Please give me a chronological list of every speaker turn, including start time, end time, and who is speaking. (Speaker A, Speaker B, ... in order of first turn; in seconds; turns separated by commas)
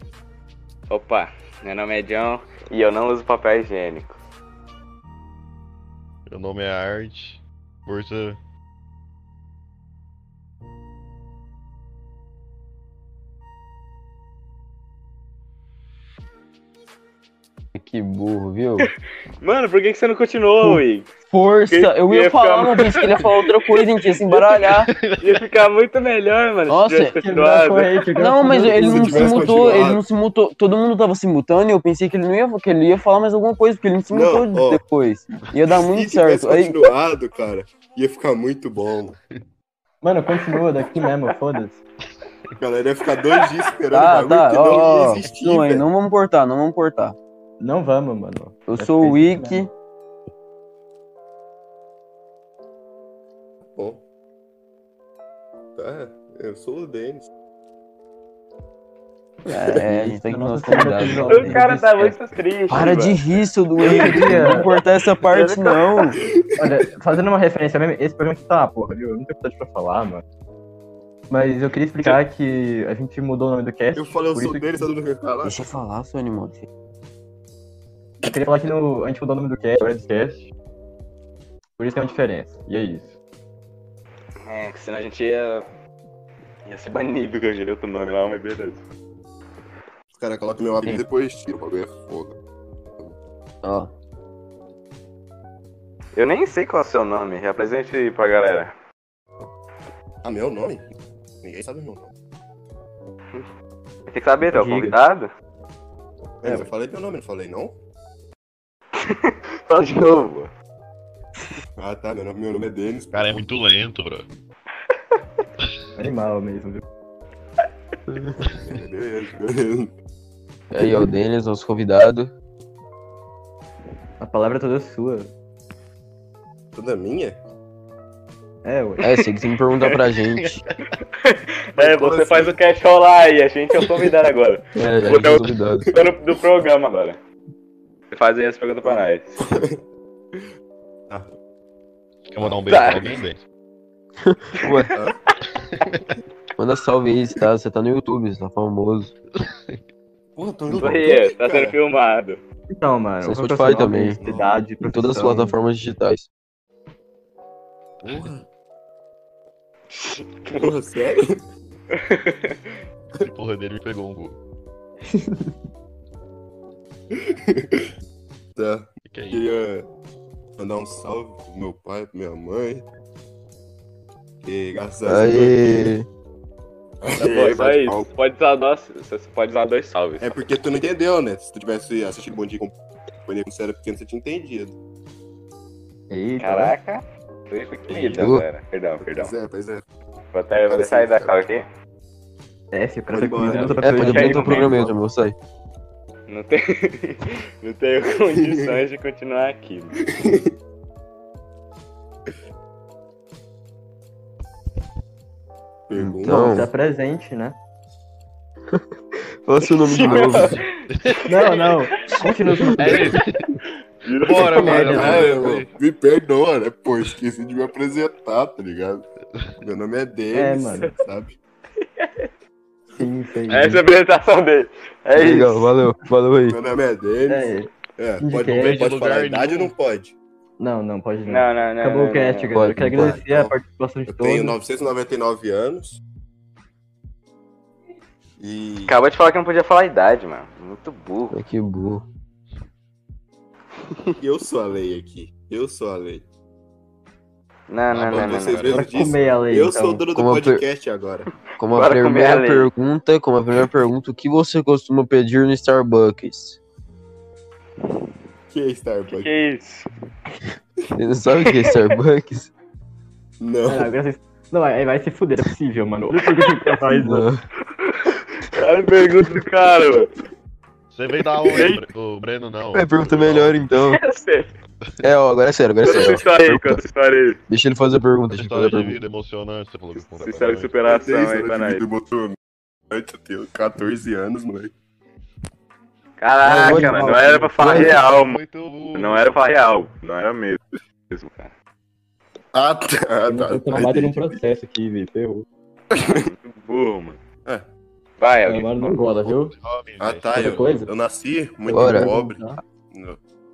Speaker A: 0.9-4.2, Speaker B: 6.3-8.4, Speaker C: 17.8-18.9, Speaker A: 19.4-21.1, Speaker C: 20.6-24.9, Speaker A: 21.7-24.5, Speaker B: 24.7-25.4, Speaker A: 25.2-27.9, Speaker C: 26.7-27.1, Speaker D: 27.2-29.7, Speaker C: 28.1-36.8, Speaker E: 28.6-30.0, Speaker E: 34.1-34.8, Speaker E: 35.7-39.2, Speaker D: 40.0-41.8, Speaker E: 42.6-45.8, Speaker C: 43.9-47.1, Speaker D: 47.6-49.7, Speaker C: 48.7-49.7, Speaker E: 53.7-54.0, Speaker E: 55.8-57.3, Speaker D: 59.5-62.1, Speaker C: 59.7-62.1, Speaker A: 61.4-63.2, Speaker C: 62.7-66.2, Speaker A: 63.8-66.1, Speaker D: 63.8-64.7, Speaker E: 66.2-66.9, Speaker D: 66.6-70.2, Speaker D: 71.3-74.9, Speaker E: 73.9-75.7, Speaker C: 75.4-76.7, Speaker D: 78.2-80.5, Speaker D: 81.8-83.2, Speaker A: 84.4-85.7, Speaker A: 86.7-88.8, Speaker E: 90.1-92.4, Speaker C: 93.6-93.9, Speaker A: 96.2-98.7, Speaker E: 100.2-100.9, Speaker E: 101.4-102.1, Speaker A: 104.1-105.3, Speaker D: 104.4-105.0, Speaker E: 106.4-107.8, Speaker A: 108.9-110.5, Speaker E: 111.8-113.4, Speaker B: 113.1-114.3, Speaker D: 116.0-116.8, Speaker B: 118.5-118.8, Speaker E: 118.5-119.9, Speaker C: 120.7-122.3, Speaker D: 124.2-125.3, Speaker E: 126.7-127.4, Speaker D: 128.6-129.2, Speaker C: 129.0-130.6, Speaker A: 131.2-137.2, Speaker E: 131.8-132.6, Speaker C: 134.8-135.9, Speaker A: 138.1-139.4, Speaker E: 138.8-139.8, Speaker B: 142.3-143.4, Speaker E: 142.4-143.2, Speaker A: 142.7-143.1, Speaker C: 144.2-144.9, Speaker B: 145.6-146.1, Speaker C: 146.6-149.1, Speaker B: 149.3-149.8, Speaker E: 150.3-151.7, Speaker A: 150.7-152.4, Speaker D: 152.8-155.5, Speaker C: 153.2-154.2, Speaker E: 154.2-154.5, Speaker C: 154.8-156.3, Speaker B: 158.0-158.3, Speaker E: 158.0-158.4, Speaker A: 159.9-160.8, Speaker E: 160.6-161.4, Speaker A: 161.9-162.6, Speaker B: 163.2-164.4, Speaker E: 167.1-167.9, Speaker E: 168.6-169.8, Speaker B: 169.1-169.5, Speaker E: 170.6-172.8, Speaker E: 174.4-175.9, Speaker C: 175.0-176.1, Speaker E: 177.0-178.1, Speaker A: 177.1-180.4, Speaker E: 180.2-182.7, Speaker E: 183.2-184.7, Speaker D: 186.1-186.7, Speaker A: 186.4-189.3, Speaker E: 187.9-188.3, Speaker C: 188.2-188.4, Speaker E: 189.1-189.8, Speaker A: 190.3-191.7, Speaker E: 190.7-191.3, Speaker D: 192.7-194.9, Speaker E: 193.1-193.8, Speaker A: 193.4-194.9, Speaker C: 193.8-195.3, Speaker A: 196.3-200.0, Speaker E: 198.3-198.8, Speaker E: 200.1-200.5, Speaker E: 205.9-206.6, Speaker C: 205.9-206.7, Speaker D: 206.3-207.6, Speaker C: 208.7-210.6, Speaker A: 209.9-211.8, Speaker E: 210.1-210.4, Speaker B: 210.2-211.7, Speaker D: 211.2-213.2, Speaker C: 212.4-213.1, Speaker B: 212.8-213.6, Speaker A: 214.0-215.3, Speaker B: 214.2-215.7, Speaker E: 214.3-219.1, Speaker D: 214.4-215.2, Speaker E: 219.6-221.3, Speaker D: 220.3-220.9, Speaker A: 222.0-222.3, Speaker D: 222.9-223.8, Speaker A: 223.5-225.7, Speaker C: 225.2-226.6, Speaker E: 226.5-230.1, Speaker D: 227.3-228.8, Speaker B: 228.5-229.7, Speaker D: 230.6-234.6, Speaker A: 231.3-232.5, Speaker C: 232.5-233.2, Speaker E: 232.8-233.5, Speaker E: 234.1-236.0, Speaker E: 238.4-238.9, Speaker A: 238.8-241.4, Speaker C: 241.3-242.0, Speaker E: 244.2-246.2, Speaker A: 247.7-248.7, Speaker B: 247.9-249.3, Speaker E: 248.1-251.3, Speaker D: 248.7-250.1, Speaker C: 250.1-250.6, Speaker C: 251.6-256.6, Speaker A: 251.7-252.7, Speaker E: 258.5-259.3, Speaker A: 259.1-259.9, Speaker C: 261.0-262.5, Speaker E: 263.4-263.9, Speaker D: 263.7-267.3, Speaker A: 266.6-267.0, Speaker C: 267.0-267.4, Speaker A: 267.8-270.1, Speaker B: 270.9-273.6, Speaker A: 271.4-271.8, Speaker C: 272.7-274.0, Speaker A: 273.9-274.5, Speaker C: 275.0-276.8, Speaker A: 275.8-277.4, Speaker C: 277.5-279.0, Speaker B: 278.3-280.8, Speaker A: 280.2-281.9, Speaker E: 280.8-282.4, Speaker E: 282.9-284.7, Speaker A: 286.2-288.4, Speaker C: 286.4-287.9, Speaker D: 286.5-287.8, Speaker B: 287.6-289.3, Speaker A: 288.9-291.5, Speaker E: 292.5-294.4, Speaker D: 293.3-295.4, Speaker E: 295.9-296.2, Speaker A: 296.0-297.2, Speaker A: 298.2-298.9, Speaker D: 298.4-299.5, Speaker B: 299.2-300.6, Speaker E: 300.0-303.2, Speaker D: 300.3-300.9, Speaker D: 301.7-302.6, Speaker C: 301.7-302.1